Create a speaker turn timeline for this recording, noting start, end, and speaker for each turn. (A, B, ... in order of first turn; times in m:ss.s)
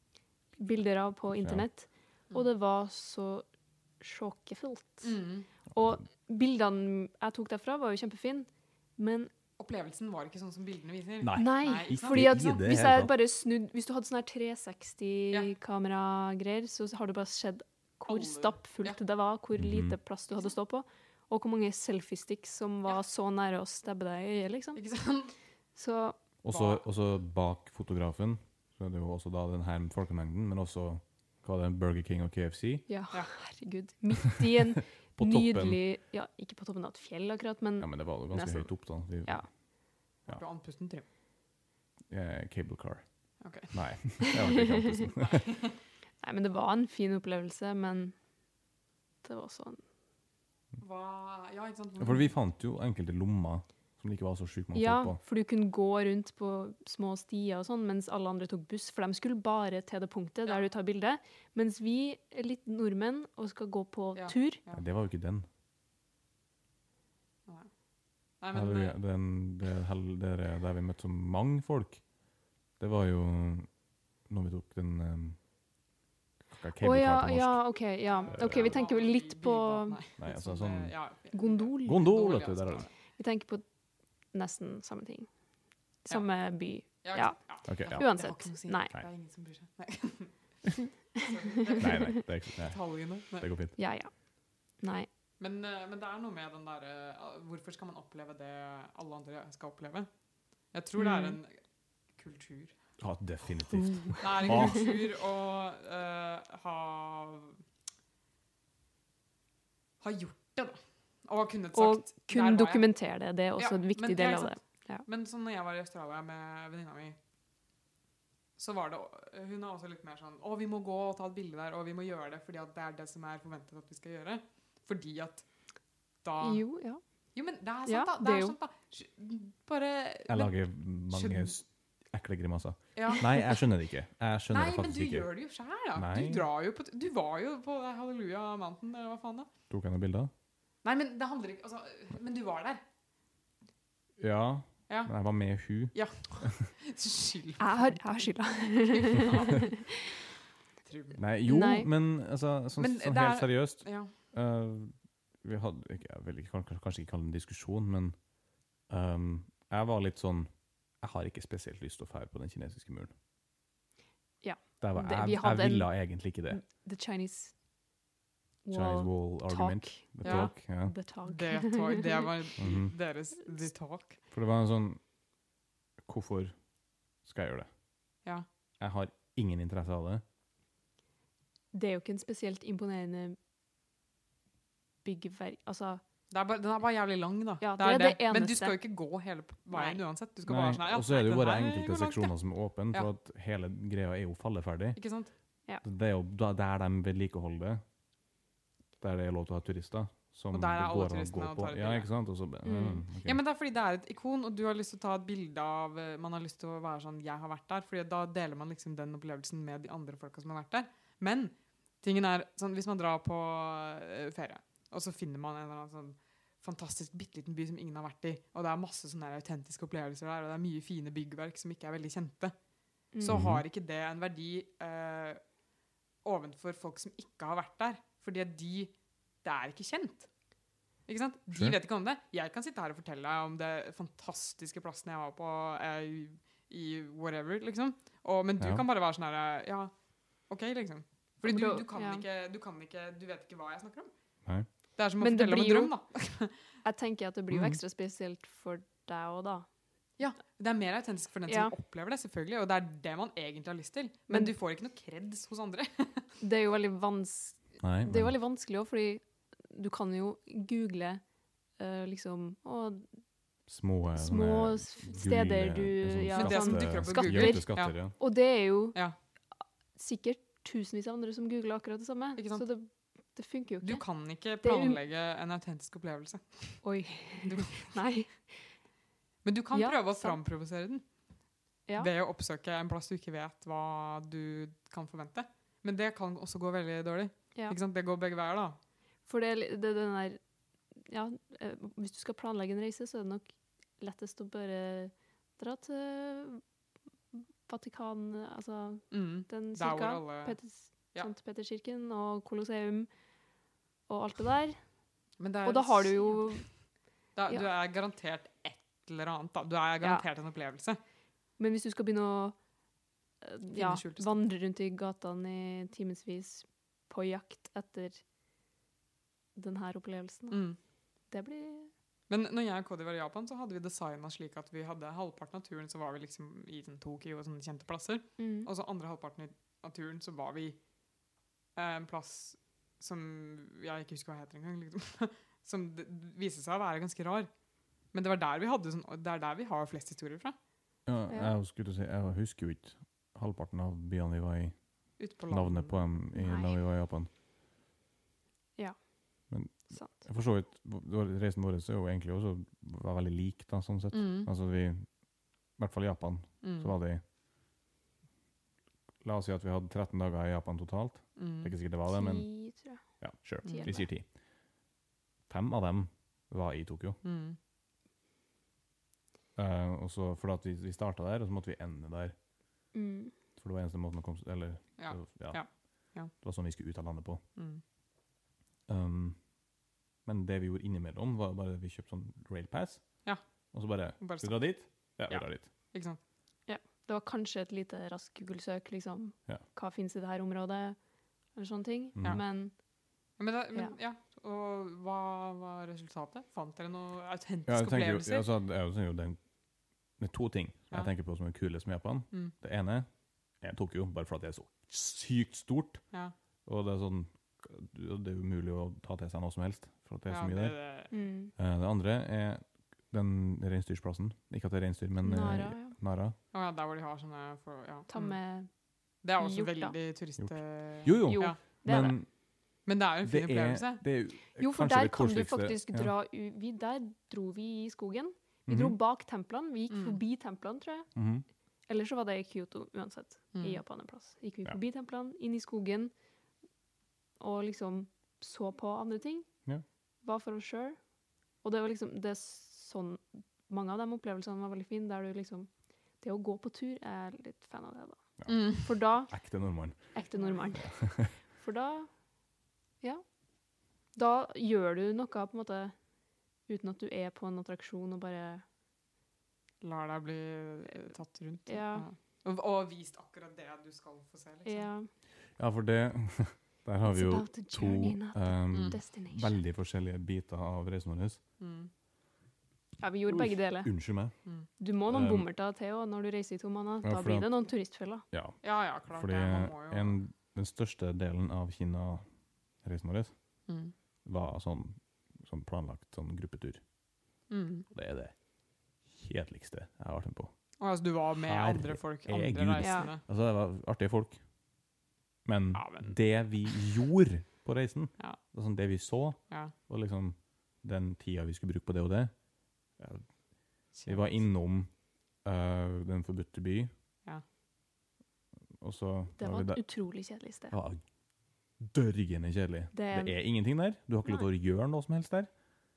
0:00.6-0:03.4 A
0:01.3-0:01.6 B
0:04.0-0:05.1 A
0:05.0-0:05.5 C
0:05.7-0:09.3 A
0:09.6-0:12.4 C
0:11.2-0:13.1 B
0:11.4-0:24.8 A
0:18.1-0:19.0 C
0:19.6-0:20.0 B
0:24.8-0:25.3 C
0:25.8-0:26.2 A
0:26.4-0:32.9 B
0:26.5-0:26.8 C
0:32.9-0:39.5 A
0:35.2-0:35.8 B
0:37.8-0:39.6 B
0:40.2-0:41.0 C
0:42.1-0:45.4 B
0:43.4-0:44.4 C
0:44.2-0:45.1 A
0:45.2-0:45.7 C
0:46.2-0:48.2 A
0:49.2-0:49.8 A
0:50.8-0:52.4 C
0:52.0-0:55.2 B
0:54.7-1:04.6 A
1:04.1-1:04.8 C
1:04.7-1:05.4 B
1:08.4-1:09.0 C
1:08.5-1:12.0 B
1:12.8-1:13.7 B
1:14.3-1:15.4 B
1:16.5-1:18.8 B
1:16.8-1:20.0 A
1:18.1-1:22.9 C
1:20.2-1:20.9 B
1:21.3-1:22.1 A
1:21.8-1:22.9 B
1:23.2-1:23.6 A
1:24.3-1:25.3 A
1:26.0-1:28.9 A
1:26.8-1:33.5 C
1:27.7-1:28.1 B
1:31.8-1:33.7 B
1:31.8-1:32.2 A
1:33.8-1:34.1 A
1:34.8-1:35.1 A
1:35.4-1:40.1 C
1:40.7-1:41.6 C
1:41.0-1:41.4 A
1:42.1-1:42.8 C
1:43.0-1:44.9 B
1:43.7-1:44.9 A
1:44.2-1:47.6 C
1:50.0-1:52.9 C
1:51.7-1:55.0 A
1:53.6-1:57.2 C
1:58.6-2:05.4 C
2:06.2-2:06.6 C
2:06.4-2:07.0 A
2:07.3-2:11.6 C
2:07.8-2:08.6 A
2:10.3-2:15.3 B
2:12.9-2:13.6 C
2:14.5-2:19.5 C
2:15.9-2:16.5 B
2:19.7-2:20.3 B
2:20.8-2:22.8 C
2:24.2-2:26.6 B
2:24.9-2:25.1 C
2:25.9-2:29.8 C
2:27.6-2:30.1 A
2:30.8-2:31.2 C
2:31.1-2:38.2 B
2:31.5-2:31.9 A
2:32.8-2:34.1 C
2:38.9-2:40.5 B
2:41.0-2:43.1 B
2:44.4-2:47.5 A
2:44.8-2:46.6 B
2:48.6-2:52.2 A
2:48.7-2:50.9 B
2:50.2-2:50.5 C
2:51.2-2:54.2 C
2:52.6-2:52.9 B
2:54.3-2:55.0 B
2:56.0-2:56.5 B
2:57.2-2:57.7 B
2:58.8-3:00.2 B
3:01.7-3:03.4 A
3:05.0-3:06.0 A
3:06.3-3:12.3 C
3:07.6-3:08.8 A
3:09.7-3:10.0 A
3:10.5-3:15.0 B
3:15.0-3:15.3 C
3:15.8-3:17.8 B
3:19.0-3:23.4 B
3:20.5-3:22.1 C
3:22.6-3:23.0 A
3:23.2-3:42.5 C
3:43.1-3:43.5 A
3:43.2-3:45.4 C
3:43.2-3:43.6 B
3:46.2-3:48.9 C
3:49.4-3:50.3 C
3:51.1-4:04.1 C
3:51.5-3:51.8 B
3:58.6-3:58.8 B
4:01.4-4:02.2 A
4:05.0-4:06.5 C
4:05.2-4:05.9 A
4:06.8-4:09.7 A
4:07.5-4:07.8 B
4:10.2-4:16.3 C
4:11.5-4:11.7 A
4:16.4-4:21.2 A
4:17.8-4:18.3 B
4:21.8-4:23.1 A
4:23.7-4:28.1 B
4:24.2-4:29.0 A
4:26.3-4:28.2 C
4:30.0-4:34.1 A
4:32.4-4:32.6 C
4:33.8-4:36.9 C
4:34.6-4:35.0 A
4:36.8-4:38.7 A
4:37.4-4:38.0 C
4:39.4-4:41.0 C
4:39.7-4:40.4 A
4:42.0-4:48.8 C
4:49.2-4:50.4 A
4:51.0-4:56.6 A
4:57.3-5:03.1 A
4:59.1-5:00.6 C
5:04.1-5:04.8 A
5:05.4-5:06.7 C
5:05.6-5:06.7 A
5:07.3-5:11.0 C
5:11.6-5:12.6 A
5:13.4-5:18.2 A
5:13.7-5:14.3 C
5:19.6-5:20.7 A
5:20.5-5:20.8 C
5:21.3-5:21.9 A
5:22.3-5:30.8 C
5:28.4-5:28.7 A
5:31.7-5:37.5 C
5:38.1-5:40.6 C
5:41.0-5:44.8 B
5:41.3-5:41.5 A
5:45.2-5:46.0 C
5:45.5-5:47.3 B
5:46.3-5:46.7 A
5:49.5-5:55.1 B
5:49.9-5:50.2 A
5:54.1-5:54.5 C
5:55.8-5:57.2 B
5:56.6-5:56.9 C
5:59.2-6:02.5 B
6:01.4-6:01.7 C
6:02.1-6:03.0 A
6:03.2-6:04.3 B
6:03.6-6:04.1 A
6:03.6-6:04.0 C
6:05.5-6:07.2 B
6:07.2-6:07.6 C
6:09.6-6:12.3 B
6:12.9-6:13.3 A
6:13.6-6:17.4 B
6:15.0-6:16.3 C
6:17.6-6:17.8 C
6:18.9-6:19.4 B
6:20.2-6:25.7 B
6:24.2-6:26.2 C
6:26.7-6:31.0 A
6:31.5-6:32.8 A
6:32.1-6:32.4 B
6:33.4-6:38.5 C
6:37.6-6:39.4 B
6:40.2-6:43.1 B
6:43.6-6:46.0 B
6:46.6-6:50.8 B
6:50.3-6:51.1 C
6:51.1-6:51.5 A
6:51.6-6:56.4 B
6:55.2-6:55.9 A
6:56.5-6:58.4 C
6:58.1-6:58.7 A
6:59.2-7:01.6 C
6:59.4-7:00.0 A
7:00.4-7:02.3 B
7:01.2-7:02.2 A
7:02.8-7:04.0 C
7:03.2-7:06.1 B
7:04.5-7:11.1 A
7:08.7-7:09.0 B
7:09.9-7:10.2 C
7:11.1-7:11.4 B
7:11.9-7:16.1 A
7:13.5-7:13.8 C
7:17.4-7:19.5 A
7:20.2-7:21.0 A
7:21.6-7:32.1 A
7:28.4-7:30.2 B
7:28.5-7:28.9 C
7:30.3-7:30.7 C
7:30.7-7:31.3 B
7:34.1-7:36.0 A
7:36.7-7:38.6 A
7:39.8-7:44.9 C
7:41.7-7:42.0 A
7:44.6-7:45.1 A
7:45.6-7:51.4 B
7:47.0-7:49.6 A
7:48.7-7:49.0 C
7:51.6-7:51.9 C
7:53.0-7:53.9 A
7:53.3-7:54.4 B
7:54.8-7:58.2 A
7:55.1-7:55.4 B
7:57.0-7:57.5 B
7:58.3-8:02.2 B
7:58.6-8:00.2 C
8:02.8-8:03.6 B
8:03.7-8:03.9 C
8:04.2-8:06.8 B
8:07.5-8:07.9 C
8:07.9-8:08.4 B
8:09.0-8:10.5 B
8:10.8-8:13.2 C
8:11.4-8:14.4 B
8:12.8-8:13.1 A
8:15.4-8:22.4 B
8:15.7-8:16.8 C
8:22.9-8:23.3 B
8:23.9-8:24.5 C
8:24.0-8:26.9 B
8:28.8-8:30.0 B
8:29.4-8:30.7 A
8:30.7-8:31.0 B
8:31.8-8:35.5 B
8:32.9-8:33.4 A